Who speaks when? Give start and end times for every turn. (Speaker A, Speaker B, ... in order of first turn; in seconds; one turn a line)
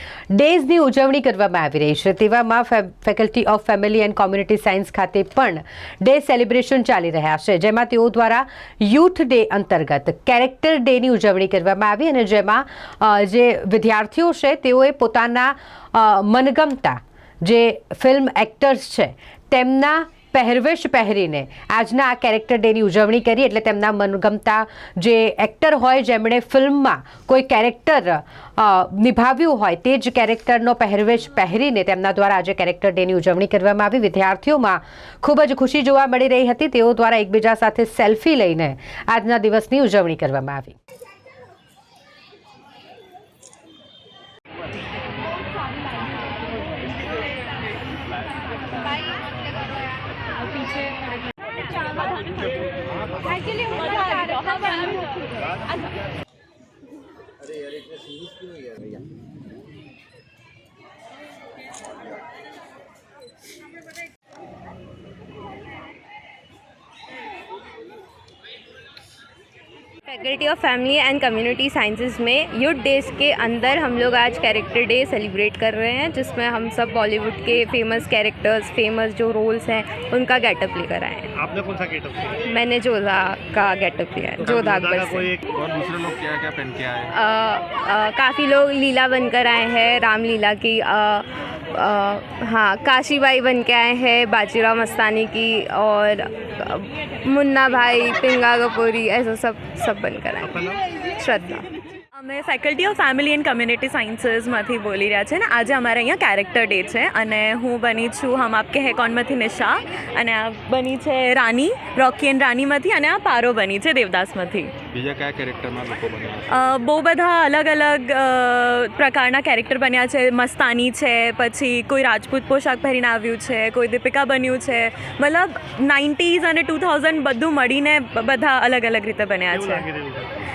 Speaker A: 0.3-40.8
Speaker B: 70.0-81.3
Speaker C: 81.4-82.4
Speaker B: 82.4-85.3
Speaker C: 84.4-85.4
Speaker D: 85.5-87.1
Speaker B: 87.1-101.7
Speaker C: 100.4-100.8
Speaker E: 102.1-114.7
Speaker D: 114.9-116.6
Speaker E: 116.5-129.9
Speaker C: 129.5-130.3